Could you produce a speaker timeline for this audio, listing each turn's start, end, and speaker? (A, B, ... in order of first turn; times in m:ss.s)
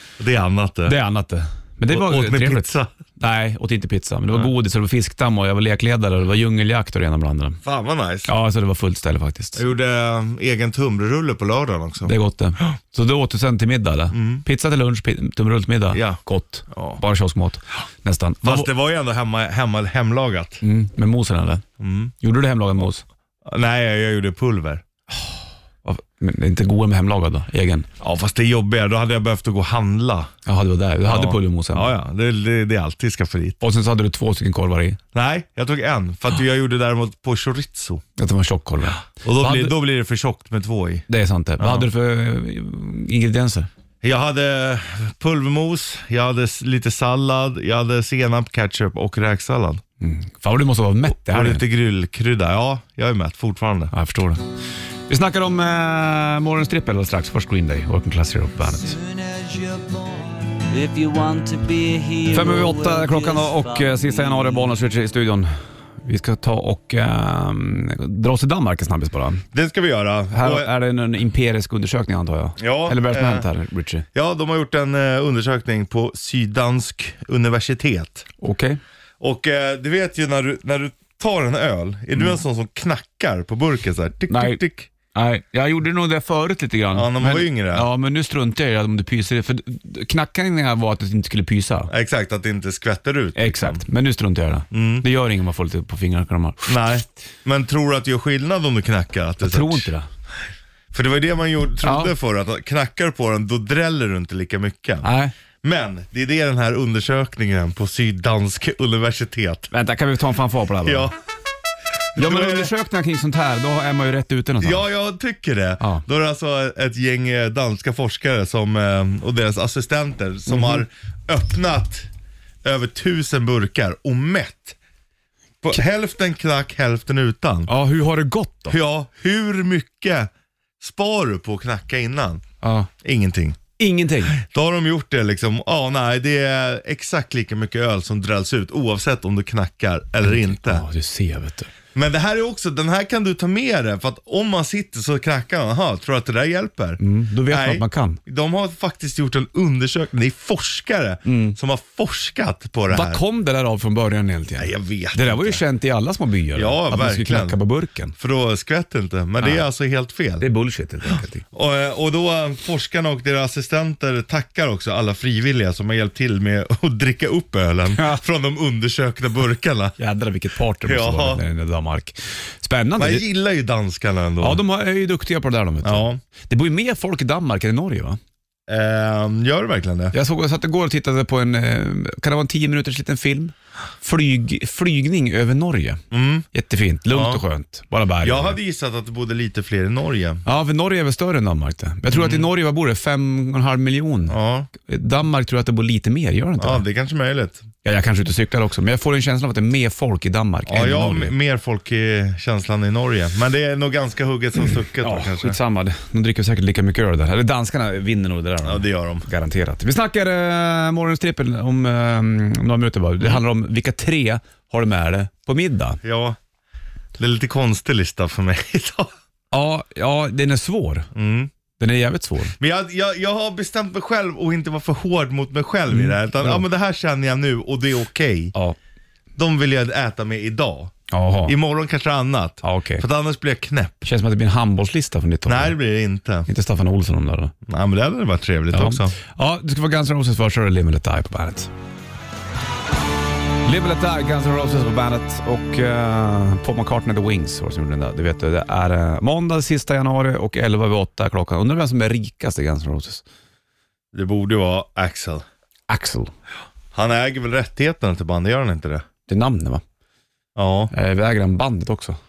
0:00.2-0:01.0 A
0:00.9-0:07.6 B
0:01.9-0:02.9 A
0:07.6-0:08.3 A
0:08.3-0:09.6 B
0:09.6-0:12.7 A
0:12.1-0:18.7 B
0:14.1-0:14.4 A
0:15.9-0:16.2 A
0:16.7-0:17.0 A
0:18.4-0:20.6 A
0:20.6-0:21.6 B
0:21.8-0:22.1 A
0:22.2-0:23.0 B
0:23.4-0:24.8 A
0:25.2-0:27.9 B
0:28.0-0:30.3 A
0:30.5-0:31.9 B
0:31.0-0:33.6 A
0:33.6-0:35.0 B
0:35.1-0:38.0 A
0:38.2-0:39.8 B
0:39.1-0:41.1 A
0:41.1-0:43.7 B
0:41.6-0:41.9 A
0:44.0-0:49.8 A
0:50.0-0:51.6 B
0:51.1-0:53.9 A
0:53.9-0:54.4 B
0:55.1-0:59.0 B
0:58.7-1:04.8 C
1:02.3-1:05.5 B
1:06.0-1:09.4 B
1:09.5-1:10.7 A
1:10.3-1:14.1 B
1:12.6-1:13.5 A
1:14.1-1:18.3 A
1:18.4-1:18.8 B
1:19.2-1:24.9 A
1:24.3-1:24.6 B
1:25.1-1:31.9 B
1:26.9-1:27.9 A
1:31.9-1:33.8 A
1:33.4-1:36.8 B
1:34.7-1:35.1 A
1:36.6-1:39.9 A
1:39.4-1:40.1 B
1:40.9-1:45.1 A
1:41.8-1:42.1 B
1:45.0-1:45.3 B
1:45.6-1:49.7 A
1:49.7-1:51.1 B
1:50.8-1:51.1 A
1:52.2-1:52.7 A
1:52.2-1:54.8 B
1:54.6-2:02.1 A
2:00.5-2:00.8 B
2:02.6-2:04.8 A
2:05.6-2:07.7 A
2:07.7-2:08.8 B
2:08.7-2:10.3 A
2:10.8-2:12.4 A
2:12.6-2:12.9 B
2:13.0-2:13.6 A
2:13.8-2:14.4 B
2:14.3-2:20.8 A
2:20.2-2:21.7 B
2:21.9-2:33.2 A
2:27.0-2:28.2 B
2:31.3-2:31.6 B
2:32.9-2:38.2 B
2:34.6-2:35.6 A
2:36.6-2:37.6 A
2:38.2-2:40.4 A
2:40.4-2:41.4 B
2:41.5-2:50.0 A
2:50.0-2:53.2 B
2:50.8-2:51.4 A
2:53.0-2:54.6 A
2:54.4-2:58.2 B
2:55.8-2:56.2 A
2:58.7-3:00.1 A
3:00.1-3:08.6 B
3:06.1-3:06.5 A
3:07.1-3:07.4 A
3:08.2-3:10.4 A
3:10.4-3:16.8 B
3:12.1-3:12.5 A
3:14.3-3:14.7 A
3:16.6-3:17.6 A
3:17.8-3:21.3 B
3:20.7-3:25.6 A
3:25.0-3:36.0 B
3:28.6-3:29.3 A
3:36.0-3:36.4 A
3:37.2-3:39.1 A
3:39.5-3:41.1 B
3:41.2-3:41.5 A
3:41.8-3:42.6 B
3:42.6-3:48.5 A
3:45.9-3:46.6 B
3:49.4-3:51.0 A
3:51.1-3:51.6 B
3:51.5-3:54.1 A
3:52.6-3:53.0 B
3:54.0-3:55.8 B
3:55.5-3:56.5 A
3:56.5-3:57.5 B
3:57.7-3:59.2 A
3:58.7-4:01.7 B
4:03.6-4:13.2 B
4:14.1-4:15.4 A
4:15.9-4:16.3 B
4:16.9-4:19.0 A
4:19.3-4:19.8 B
4:20.6-4:20.9 A
4:20.9-4:22.2 B